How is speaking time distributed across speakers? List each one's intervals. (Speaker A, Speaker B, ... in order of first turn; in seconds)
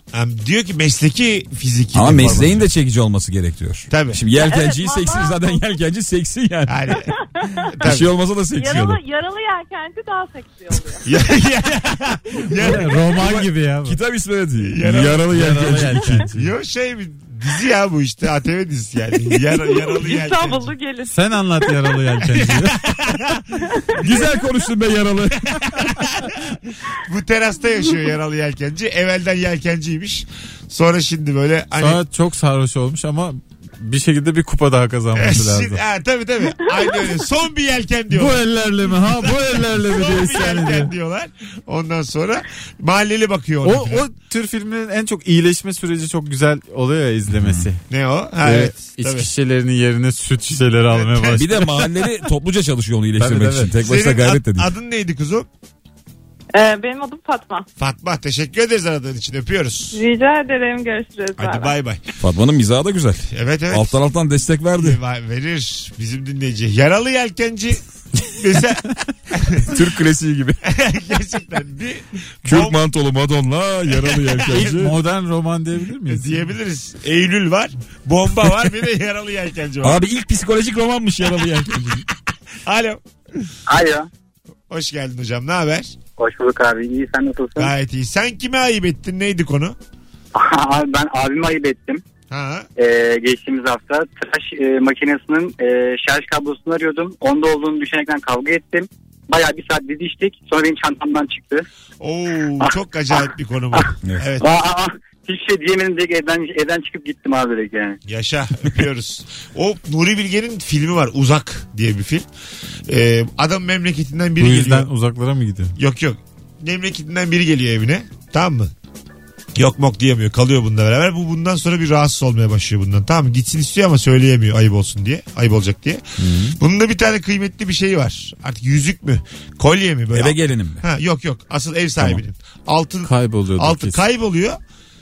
Speaker A: 0.1-2.6, 3.9-4.2, 6.7-7.1, 7.7-8.1, 11.0-13.0, 14.6-15.4, 16.3-20.7, 22.4-24.2, 25.5-32.0, 35.1-44.0, 47.9-49.3, 50.9-51.5, 53.8-55.5, 57.8-60.0, 61.4-62.0, 63.3-64.0, 64.8-69.7, 70.7-72.8, 73.9-74.8, 76.1-80.0, 82.7-83.0, 84.7-86.0, 87.6-89.8, 92.3-92.7, 102.0-104.4, 108.0-112.3, 112.9-114.9, 115.8-118.7, 119.5-134.6
Speaker B: 1.9-7.0, 7.8-9.0, 12.6-16.3, 24.0-25.6, 47.4-47.6, 51.4-54.7, 62.2-65.0, 69.6-70.6, 72.5-74.9, 79.8-82.0, 130.1-130.8
Speaker C: 4.3-5.7, 7.2-7.7, 8.6-11.1, 19.6-22.2, 23.6-24.3, 56.5-57.6, 59.9-61.7
Speaker D: 12.6-14.0, 15.3-16.5, 21.1-22.8, 31.8-35.8, 38.1-40.9, 43.6-47.8, 48.4-51.9, 53.2-53.7, 74.5-76.4, 114.4-115.7, 126.2-126.6, 133.0-134.0
Speaker E: 83.7-84.1, 86.2-87.7, 90.3-92.0, 92.8-101.6, 104.4-108.0